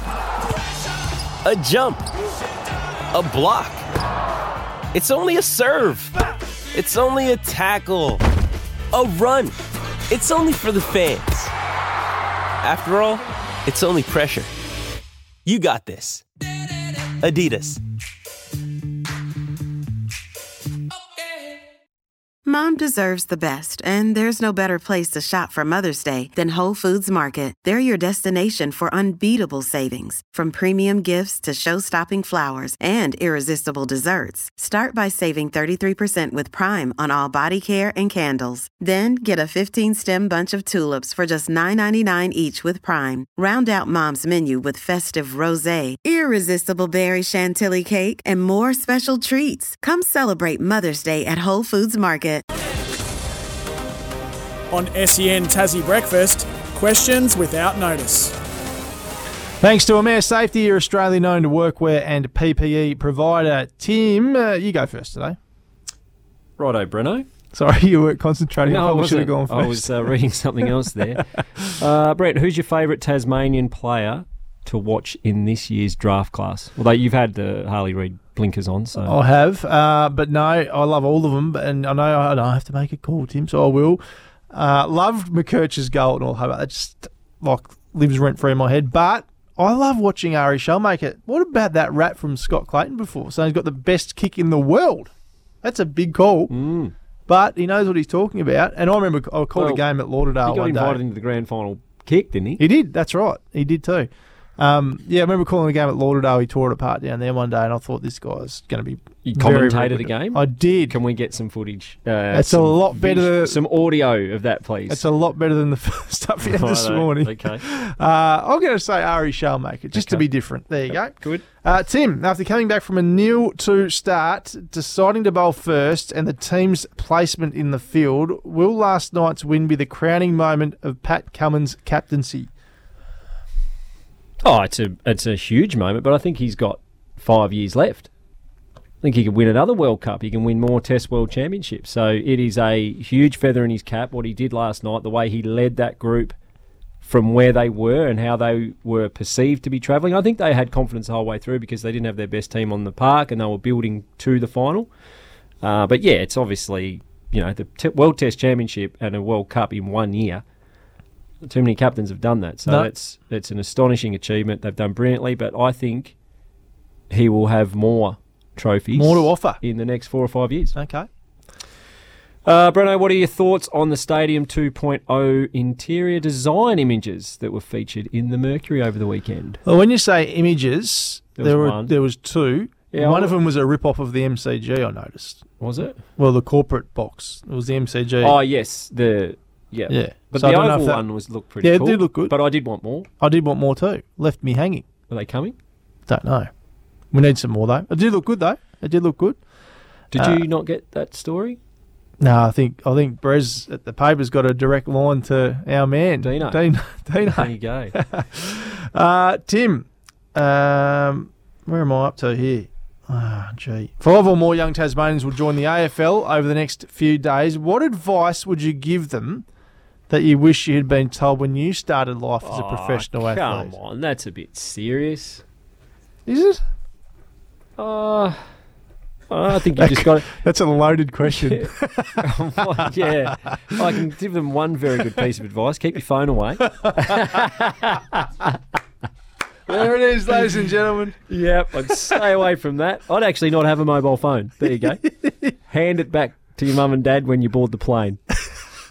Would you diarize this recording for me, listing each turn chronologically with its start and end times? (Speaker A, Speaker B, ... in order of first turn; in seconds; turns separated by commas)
Speaker A: 1.4-2.1, Speaker A: 3.1-3.8, Speaker A: 4.9-6.1, Speaker A: 6.7-8.2, Speaker A: 8.9-9.6, Speaker A: 10.1-11.5, Speaker A: 12.6-14.5, Speaker A: 15.4-16.2, Speaker A: 17.2-17.8, Speaker B: 22.4-52.4, Speaker C: 54.7-58.4, Speaker D: 59.6-65.4, Speaker E: 66.6-67.3, Speaker D: 67.5-70.1, Speaker E: 68.6-79.2, Speaker D: 79.0-84.0, Speaker D: 84.5-95.1, Speaker D: 95.6-96.5, Speaker E: 96.5-96.9, Speaker D: 97.3-101.0, Speaker E: 99.5-99.8, Speaker E: 100.4-102.6, Speaker D: 102.6-111.0, Speaker E: 109.2-115.0, Speaker D: 112.3-113.6, Speaker D: 114.9-132.5, Speaker E: 116.4-117.6, Speaker E: 119.9-120.3, Speaker E: 121.0-121.5, Speaker E: 134.4-138.1, Speaker E: 139.0-146.4, Speaker E: 147.0-154.9, Speaker E: 155.6-160.4, Speaker E: 161.4-166.2, Speaker D: 162.7-162.9, Speaker E: 167.1-170.8, Speaker D: 168.9-169.6, Speaker D: 170.7-171.1, Speaker E: 172.4-179.6, Speaker D: 179.6-185.4, Speaker E: 181.4-181.9, Speaker E: 182.9-183.4, Speaker E: 185.6-186.0, Speaker D: 186.2-188.4, Speaker E: 188.2-193.1, Speaker D: 189.9-191.1, Speaker D: 191.6-192.3, Speaker D: 193.2-194.8, Speaker E: 195.1-195.6, Speaker D: 196.1-196.5, Speaker D: 197.1-199.4, Speaker E: 200.1-201.6, Speaker D: 200.2-200.4, Speaker D: 202.2-219.4, Speaker E: 206.2-206.6, Speaker E: 207.2-208.0, Speaker D: 220.1-223.8, Speaker E: 222.4-225.4, Speaker D: 226.3-226.6, Speaker E: 227.8-228.4, Speaker E: 229.3-230.3, Speaker D: 229.7-234.0, Speaker E: 231.2-238.4, Speaker D: 236.8-237.2, Speaker D: 239.7-241.2, Speaker E: 241.3-248.2